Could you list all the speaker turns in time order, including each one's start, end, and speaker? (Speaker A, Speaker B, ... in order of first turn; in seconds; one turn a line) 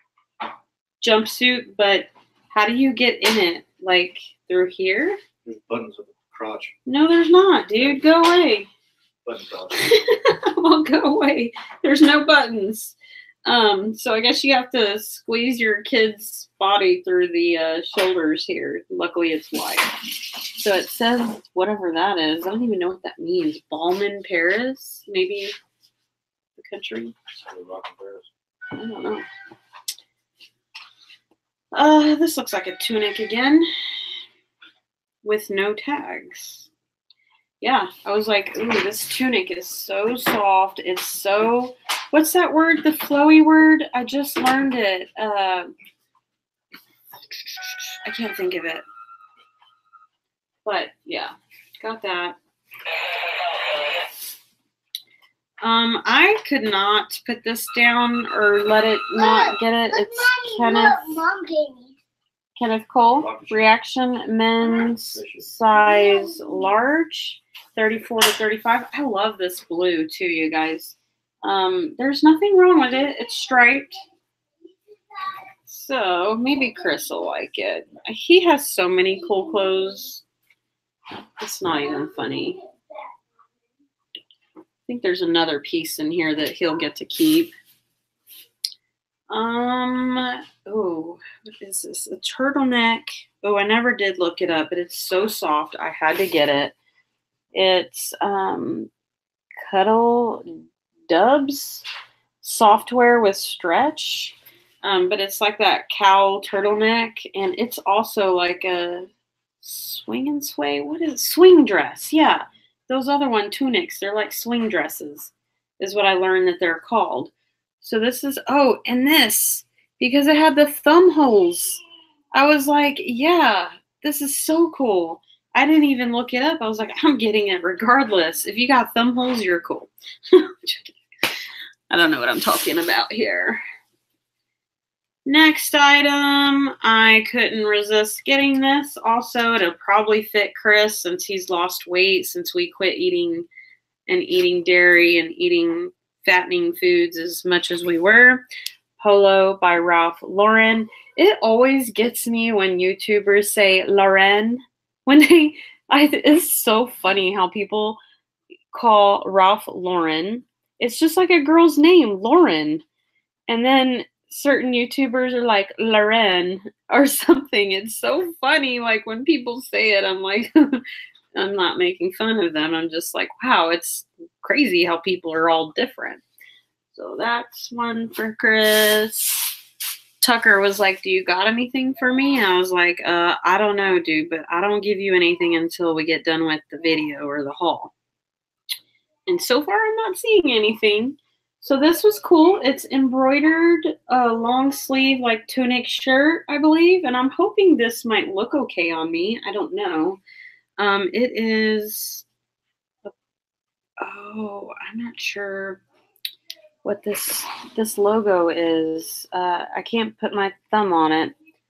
Speaker A: 1.0-5.2
Speaker B: 5.5-6.7
Speaker A: 6.9-8.7
Speaker B: 9.2-9.8
Speaker A: 9.8-19.9
Speaker A: 20.6-25.5
Speaker A: 26.6-27.1
Speaker B: 27.3-28.3
Speaker A: 28.8-29.2
Speaker A: 31.7-33.7
Speaker A: 35.2-36.7
Speaker A: 37.6-45.7
Speaker A: 48.0-48.8
Speaker A: 50.6-52.4
Speaker A: 55.6-61.0
Speaker C: 59.1-61.9
Speaker A: 62.6-74.0
Speaker B: 63.2-63.7
Speaker B: 65.1-65.5
Speaker C: 65.9-66.4
Speaker A: 75.7-80.2
Speaker A: 81.4-82.6
Speaker A: 84.9-87.5
Speaker A: 89.3-96.8
Speaker A: 97.5-98.9
Speaker A: 99.7-100.6
Speaker A: 101.1-101.8
Speaker A: 102.4-109.1
Speaker A: 109.6-121.8
Speaker A: 122.3-130.9
Speaker A: 131.9-133.6
Speaker A: 135.3-143.5
Speaker A: 144.1-148.4
Speaker A: 149.0-158.0
Speaker A: 158.7-162.8
Speaker A: 163.5-170.8
Speaker A: 171.3-176.2
Speaker A: 176.9-179.5
Speaker A: 180.2-187.9
Speaker A: 189.3-200.2
Speaker A: 200.8-202.2
Speaker A: 204.0-205.8
Speaker A: 206.8-211.3